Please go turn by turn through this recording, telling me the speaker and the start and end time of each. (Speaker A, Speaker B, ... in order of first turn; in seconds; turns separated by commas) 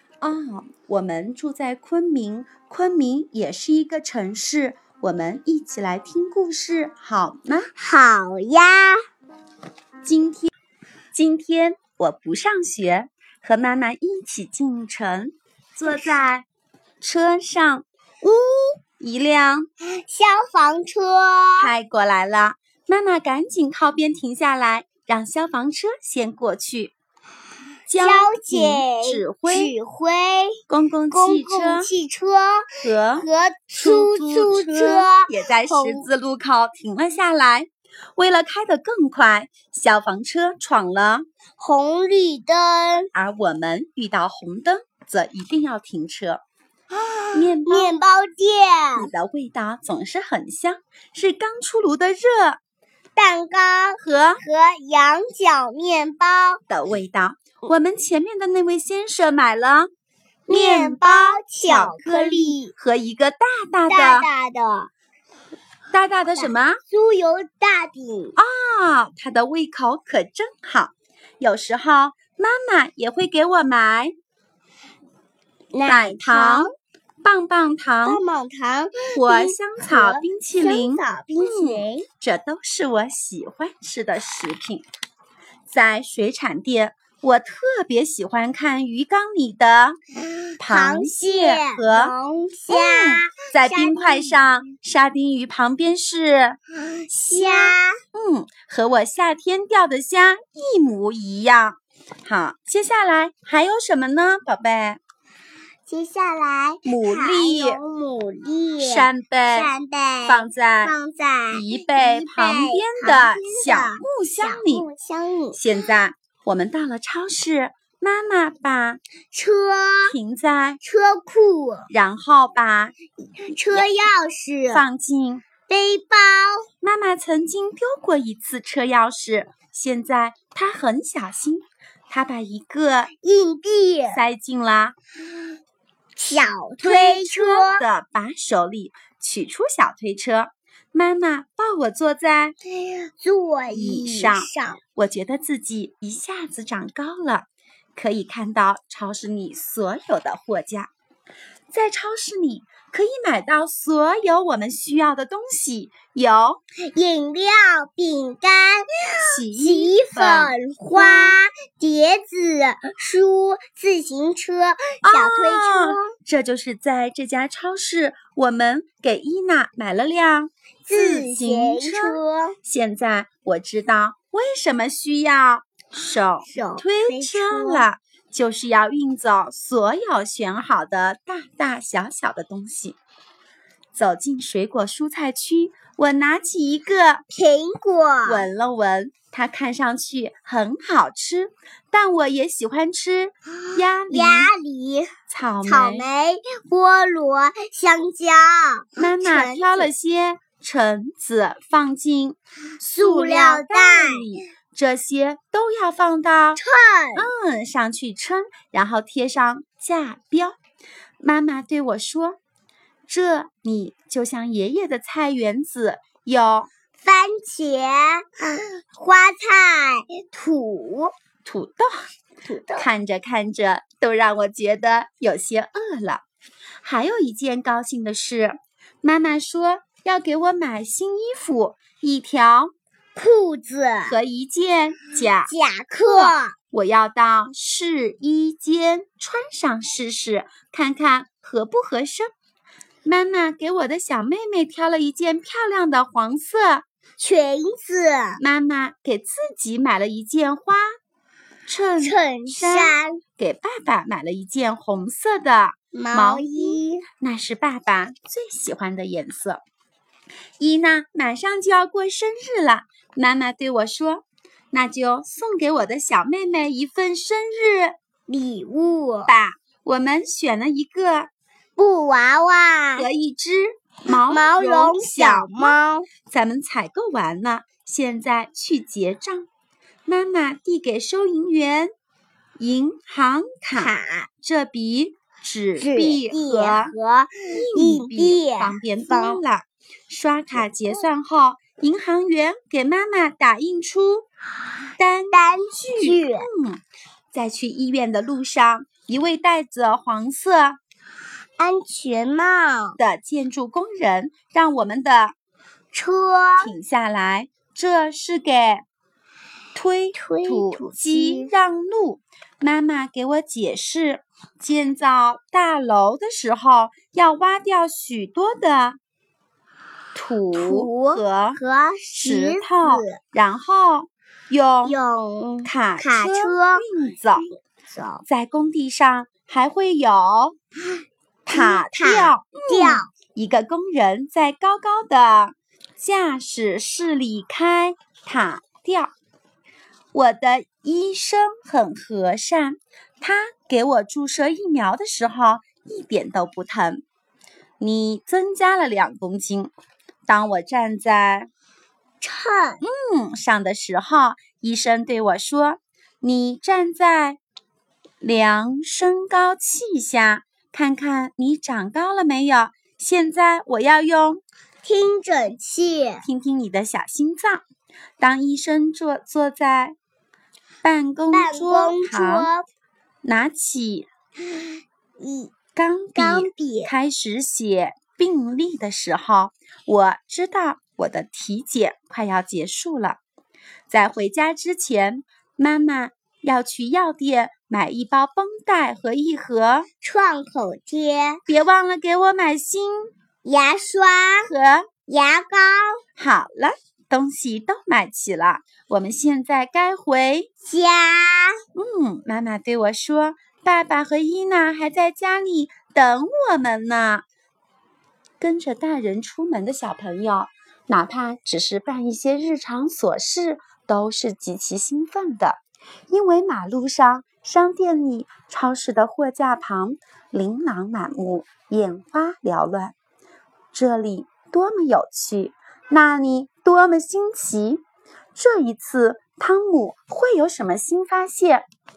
Speaker A: 0.2-7.7, Speaker B: 7.7-9.0, Speaker A: 10.0-10.5, Speaker A: 11.1-16.4, Speaker A: 17.0-19.7, Speaker B: 20.0-21.7, Speaker A: 21.6-26.9, Speaker A: 27.9-29.7, Speaker B: 28.0-30.6, Speaker A: 30.7-31.9, Speaker B: 31.1-36.1, Speaker A: 32.8-41.2, Speaker B: 41.6-43.1, Speaker A: 43.1-46.4, Speaker B: 46.9-49.1, Speaker A: 47.3-48.0, Speaker A: 49.0-52.6, Speaker B: 53.1-56.6, Speaker A: 54.0-54.4, Speaker A: 56.7-59.9, Speaker B: 60.5-62.7, Speaker A: 60.5-64.3, Speaker B: 63.9-64.9, Speaker A: 65.9-66.8, Speaker B: 66.3-68.3, Speaker A: 68.3-74.1, Speaker B: 75.7-76.7, Speaker A: 75.8-76.7, Speaker A: 77.2-78.2, Speaker B: 78.0-82.0, Speaker A: 79.1-84.8, Speaker A: 85.7-90.0, Speaker B: 90.3-94.5, Speaker A: 90.6-92.1, Speaker A: 92.7-96.6, Speaker B: 96.8-98.0, Speaker A: 97.3-105.0, Speaker B: 105.8-115.6, Speaker A: 106.8-107.8, Speaker A: 108.8-109.7, Speaker A: 110.2-110.9, Speaker A: 111.5-114.9, Speaker A: 115.5-119.0, Speaker B: 119.3-120.1, Speaker A: 120.1-120.8, Speaker B: 120.8-121.9, Speaker A: 121.9-123.0, Speaker B: 123.5-124.8, Speaker A: 124.7-125.4, Speaker B: 125.7-126.7, Speaker A: 126.8-133.1, Speaker B: 133.2-134.2, Speaker A: 134.1-134.9, Speaker B: 136.2-137.8, Speaker A: 136.8-142.5, Speaker B: 142.7-144.8, Speaker A: 143.7-150.9, Speaker A: 151.7-156.6, Speaker B: 156.9-166.1, Speaker A: 159.2-161.3, Speaker A: 165.0-183.0, Speaker B: 170.8-172.6, Speaker B: 176.4-177.9, Speaker A: 183.9-187.2, Speaker B: 187.3-188.5, Speaker A: 188.2-194.5, Speaker B: 193.7-199.9, Speaker A: 195.3-196.1, Speaker A: 199.0-206.6, Speaker B: 202.9-204.2, Speaker B: 206.6-207.3, Speaker A: 207.2-210.6, Speaker A: 211.2-212.4, Speaker A: 213.1-216.7, Speaker B: 217.0-221.1, Speaker A: 221.4-222.0, Speaker B: 222.5-222.9, Speaker A: 222.7-226.2, Speaker A: 226.8-232.7, Speaker B: 233.1-234.2, Speaker A: 234.0-242.3, Speaker B: 235.4-236.5, Speaker A: 243.0-246.8, Speaker B: 247.2-248.4, Speaker A: 248.4-250.9, Speaker A: 251.7-259.6, Speaker B: 252.0-253.2, Speaker B: 255.9-257.0, Speaker A: 260.6-267.9, Speaker B: 268.3-269.3, Speaker A: 269.3-271.3, Speaker B: 271.8-273.1, Speaker A: 273.0-279.5, Speaker B: 274.2-276.1, Speaker A: 280.1-281.9, Speaker A: 282.6-286.9, Speaker B: 283.7-284.3, Speaker B: 285.8-289.4, Speaker A: 287.5-294.2, Speaker A: 295.0-296.8, Speaker B: 295.3-296.5, Speaker A: 297.3-300.8, Speaker B: 301.6-303.0, Speaker A: 303.0-305.3, Speaker B: 305.9-306.7, Speaker A: 306.6-308.8, Speaker A: 309.7-319.0, Speaker B: 310.1-311.5, Speaker A: 320.1-321.6, Speaker B: 320.5-323.2, Speaker A: 322.1-325.0, Speaker B: 324.8-328.2, Speaker A: 325.6-327.4, Speaker A: 328.2-330.5, Speaker A: 331.4-339.1, Speaker B: 331.5-333.1, Speaker A: 340.1-347.0, Speaker A: 347.8-349.7, Speaker A: 350.3-351.5, Speaker B: 352.2-352.8, Speaker A: 352.8-357.4, Speaker A: 358.2-364.4, Speaker B: 364.8-366.2, Speaker A: 366.2-367.6, Speaker A: 368.2-369.9, Speaker A: 370.8-372.5, Speaker B: 371.3-372.6, Speaker A: 373.2-374.1, Speaker B: 374.5-375.5, Speaker A: 375.8-383.2, Speaker B: 376.1-376.9, Speaker A: 383.9-389.9, Speaker B: 390.0-391.4, Speaker A: 391.5-393.1, Speaker B: 393.4-394.5, Speaker A: 394.4-394.9, Speaker B: 395.1-396.0, Speaker A: 396.2-400.5, Speaker B: 400.6-401.5, Speaker A: 401.7-407.2, Speaker A: 408.4-422.9, Speaker A: 423.7-427.8, Speaker A: 428.3-431.6